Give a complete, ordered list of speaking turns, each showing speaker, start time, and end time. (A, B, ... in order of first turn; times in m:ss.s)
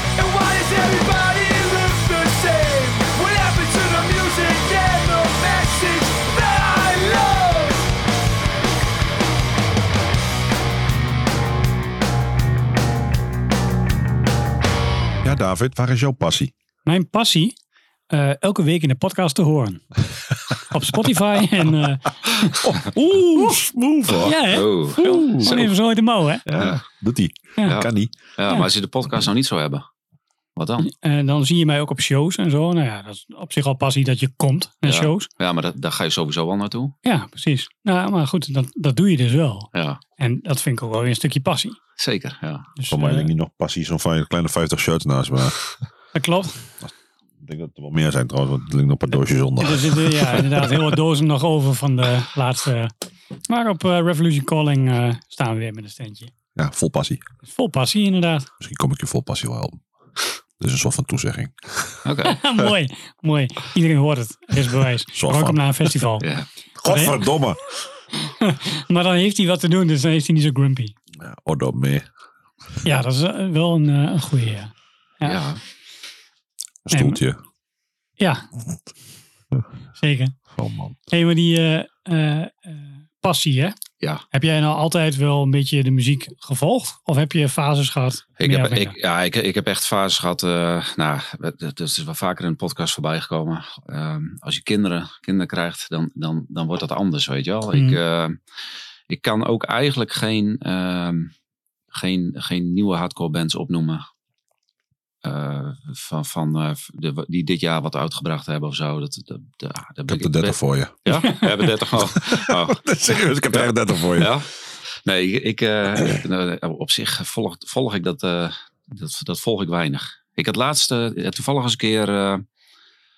0:00.1-0:07.8 A
0:15.2-0:16.5 B
0:16.9-0:17.6 C
0:18.1-0:20.0 C
0:20.7-0:22.6 C
0:22.6-0:24.4 B
0:24.2-0:26.4 C
0:24.5-0:25.7 D
0:25.0-0:25.5 B
0:26.5-0:28.1 B
0:27.7-0:29.8 D
0:30.6-0:30.9 D
0:30.8-0:35.3 C
0:34.8-0:37.0 D
0:37.0-0:41.8 C
0:39.7-0:40.0 D
0:42.0-0:42.7 D
0:42.8-0:43.3 C
0:42.9-0:45.6 B
0:46.1-0:46.6 C
0:46.8-0:50.4 B
0:49.6-0:52.9 C
0:53.5-0:56.3 C
0:56.6-0:57.2 B
0:57.5-0:58.5 C
0:58.6-0:59.8 B
1:00.6-1:02.0 B
1:02.0-1:02.4 D
1:02.2-1:06.3 C
1:05.1-1:05.6 B
1:06.2-1:06.5 D
1:06.8-1:07.6 B
1:06.9-1:07.2 C
1:08.4-1:10.9 C
1:11.2-1:12.1 B
1:12.8-1:15.4 C
1:15.2-1:15.6 D
1:16.9-1:17.4 B
1:16.9-1:17.2 C
1:18.2-1:18.5 C
1:20.0-1:20.4 C
1:20.5-1:21.0 B
1:21.1-1:23.8 C
1:24.3-1:29.0 C
1:28.4-1:38.4 D
1:37.7-1:38.0 C
1:39.1-1:41.3 D
1:41.9-1:44.0 D
1:45.2-1:52.8 D
1:50.1-1:51.4 B
1:52.0-1:54.3 B
1:53.5-1:54.5 D
1:55.0-2:02.4 D